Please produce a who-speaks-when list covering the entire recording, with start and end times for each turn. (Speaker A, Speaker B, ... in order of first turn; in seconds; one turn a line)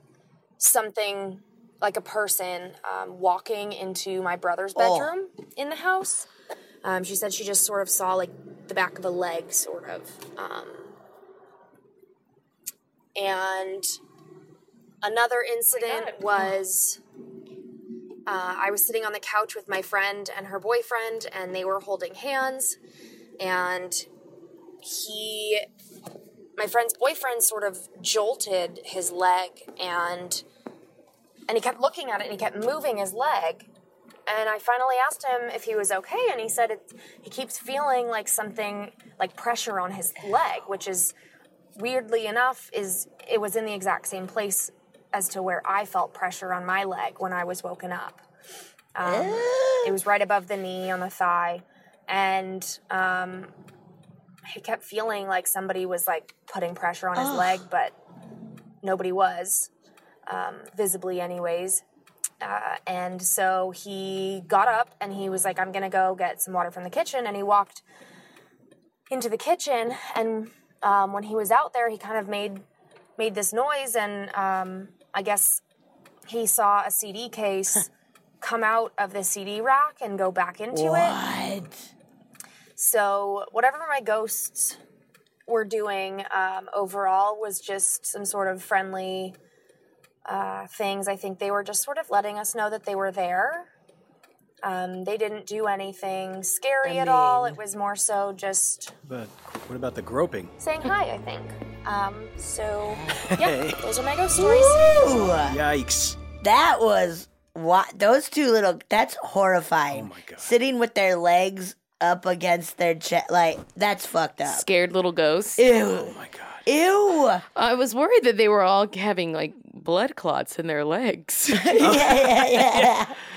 Speaker A: 0.6-6.3
Speaker B: 4.8-5.1
Speaker A: 6.8-10.9
Speaker A: 13.2-14.0
Speaker A: 15.0-17.0
Speaker A: 18.3-22.8
Speaker A: 23.4-24.1
Speaker A: 24.8-25.6
Speaker A: 26.6-30.4
Speaker A: 31.5-33.7
Speaker A: 34.3-41.1
Speaker A: 41.8-48.2
Speaker A: 49.0-53.5
Speaker B: 49.0-50.0
Speaker A: 54.5-58.0
Speaker B: 57.1-57.6
Speaker A: 58.8-59.7
Speaker A: 60.3-61.8
Speaker A: 62.4-67.8
Speaker A: 69.1-72.6
Speaker A: 73.2-75.6
Speaker A: 76.3-77.9
Speaker A: 78.4-81.2
Speaker B: 80.7-81.8
Speaker A: 82.8-84.8
Speaker A: 85.5-89.4
Speaker A: 90.3-93.7
Speaker A: 94.6-98.9
Speaker B: 96.8-97.6
Speaker C: 99.1-100.5
Speaker A: 100.6-105.4
Speaker B: 102.9-103.3
Speaker C: 103.2-103.8
Speaker B: 104.4-105.6
Speaker C: 105.3-106.2
Speaker B: 106.4-114.7
Speaker C: 109.9-110.5
Speaker D: 114.5-115.6
Speaker B: 115.6-117.4
Speaker C: 115.9-116.6
Speaker D: 117.5-121.9
Speaker B: 121.5-123.2
Speaker C: 121.8-122.9